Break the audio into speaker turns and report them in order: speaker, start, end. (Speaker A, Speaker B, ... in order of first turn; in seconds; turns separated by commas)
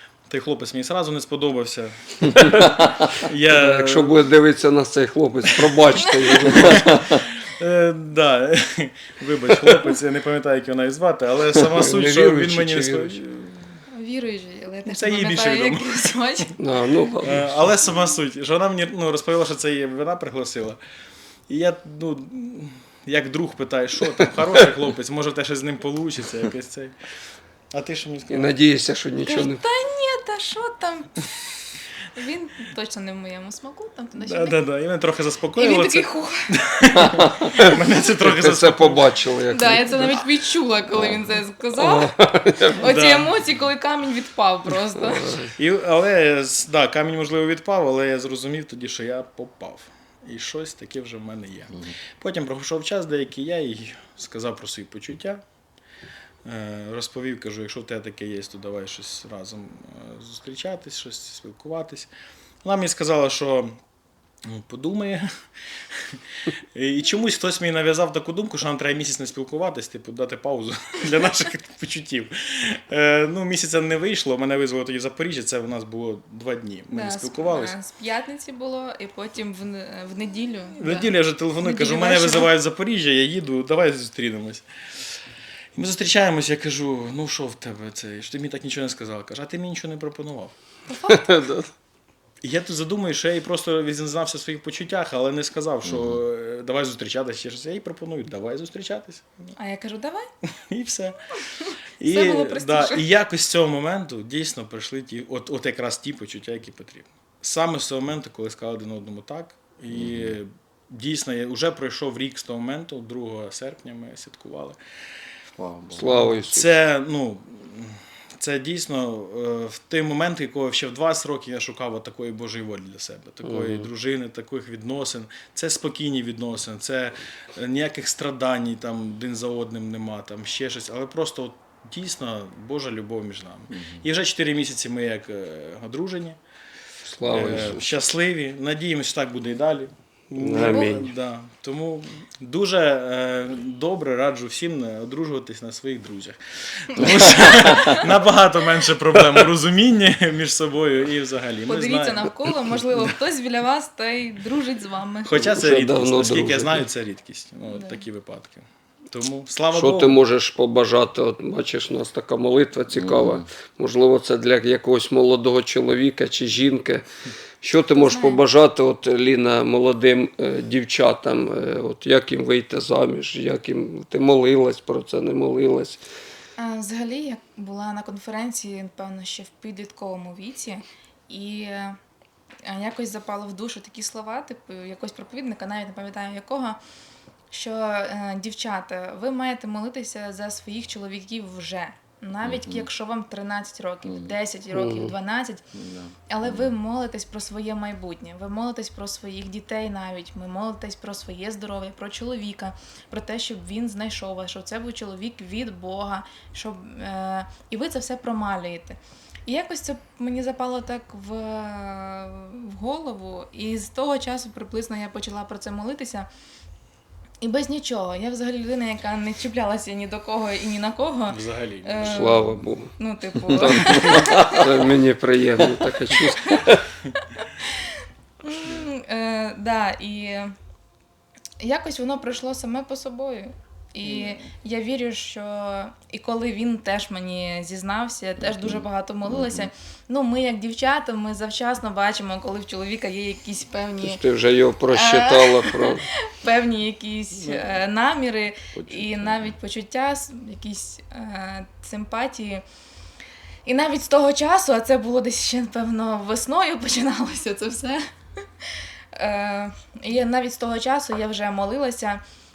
Speaker A: 0.3-4.2, Speaker B: 3.5-6.9, Speaker A: 5.7-13.8, Speaker B: 11.7-13.2, Speaker C: 13.9-16.5, Speaker A: 14.8-16.5, Speaker B: 16.6-17.6, Speaker A: 17.2-20.8, Speaker A: 21.5-26.9, Speaker A: 27.7-28.5, Speaker B: 28.3-29.6, Speaker C: 29.3-31.2, Speaker C: 32.1-34.6, Speaker A: 34.1-39.1, Speaker C: 35.5-36.3, Speaker B: 37.4-40.2, Speaker C: 39.5-42.1, Speaker B: 41.7-42.9, Speaker A: 42.8-43.5, Speaker C: 42.8-45.4, Speaker B: 45.0-45.5, Speaker A: 45.5-55.4, Speaker A: 56.5-62.1, Speaker A: 62.6-63.8, Speaker A: 64.5-65.2, Speaker A: 66.7-77.8, Speaker C: 76.9-82.5, Speaker A: 80.8-84.6, Speaker A: 85.8-90.5, Speaker C: 90.9-91.5, Speaker B: 91.1-91.4, Speaker A: 92.4-99.3, Speaker D: 95.9-96.2, Speaker C: 99.6-100.2, Speaker A: 100.7-101.2, Speaker A: 102.0-114.8, Speaker C: 102.1-103.0, Speaker D: 109.9-110.3, Speaker D: 115.6-116.4, Speaker B: 115.9-116.7, Speaker A: 116.5-136.4, Speaker B: 123.4-123.9, Speaker D: 133.7-134.0, Speaker B: 137.1-137.9, Speaker A: 137.3-153.0, Speaker B: 140.4-141.1, Speaker C: 147.0-148.1, Speaker C: 151.7-155.4, Speaker A: 155.2-160.2, Speaker B: 155.3-156.9, Speaker C: 157.7-158.0, Speaker B: 159.7-167.0, Speaker D: 162.9-163.5, Speaker B: 167.6-176.0, Speaker C: 168.1-168.4, Speaker C: 176.6-182.0, Speaker C: 182.7-186.8, Speaker C: 187.5-195.6, Speaker D: 192.4-192.9, Speaker D: 194.0-194.4, Speaker B: 194.7-195.2, Speaker D: 195.7-196.8, Speaker C: 196.3-216.2, Speaker C: 217.4-224.7, Speaker A: 221.3-222.6, Speaker B: 222.0-222.9, Speaker B: 223.4-226.8, Speaker A: 223.8-224.2, Speaker D: 224.2-224.5, Speaker C: 226.3-226.7, Speaker C: 228.4-230.5, Speaker C: 231.6-244.2, Speaker A: 234.0-234.4, Speaker D: 238.5-239.7, Speaker B: 244.0-246.0, Speaker C: 244.9-252.6, Speaker D: 247.3-247.9, Speaker D: 248.7-249.6, Speaker C: 253.7-258.0, Speaker C: 259.2-262.2